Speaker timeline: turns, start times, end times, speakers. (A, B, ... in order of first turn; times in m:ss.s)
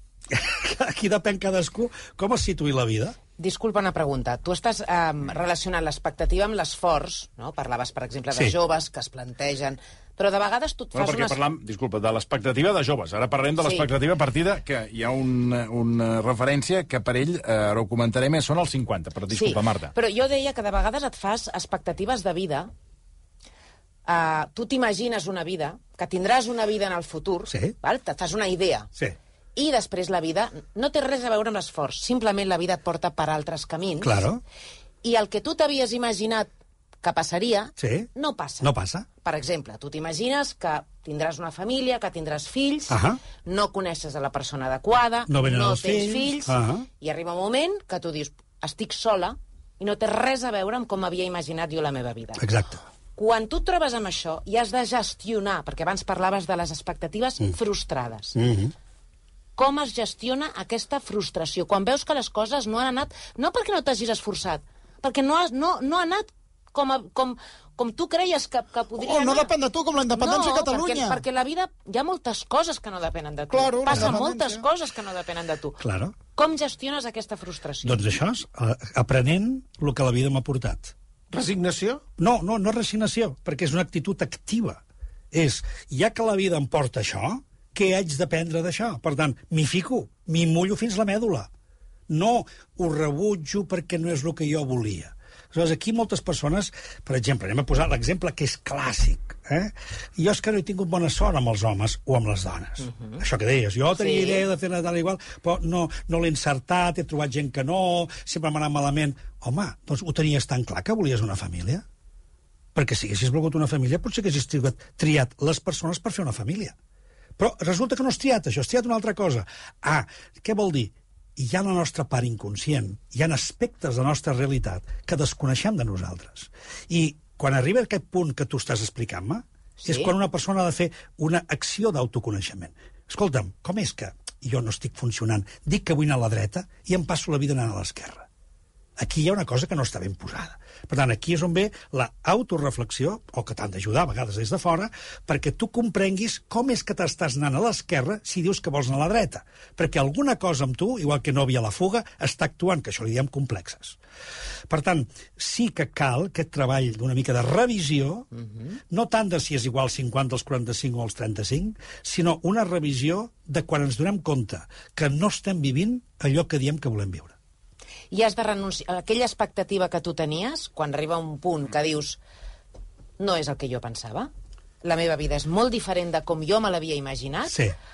0:00.3-0:03.2 A
0:03.4-0:11.4 B
0:10.9-0:19.9 C
0:13.6-0:13.9 B
0:19.3-0:22.7 B
0:24.0-0:28.9 B
0:29.6-0:34.2 B
0:34.0-0:34.4 A
0:35.0-0:36.5 B
0:37.0-0:38.7 B
0:37.8-0:38.1 A
0:38.6-0:39.1 A
0:39.2-0:52.5 B
0:42.9-0:43.2 A
0:45.3-0:46.8 A
0:52.4-0:52.8 A
0:53.1-0:58.4 B
0:58.3-0:58.7 A
0:59.6-1:09.5 B
1:09.0-1:11.2 D
1:10.1-1:15.8 B
1:13.5-1:14.6 D
1:15.8-1:16.1 A
1:16.3-1:18.0 B
1:17.8-1:20.9 A
1:21.3-1:22.0 D
1:22.2-1:31.5 A
1:32.1-1:51.8 A
1:42.8-1:43.2 B
1:43.9-1:44.4 B
1:52.7-1:56.7 A
1:57.4-2:18.3 A
2:09.8-2:10.1 B
2:19.0-2:34.0 A
2:34.7-2:38.3 A
2:38.9-2:47.3 A
2:48.1-2:52.2 B
2:53.2-2:54.3 B
2:54.8-2:57.6 B
2:57.5-2:57.7 A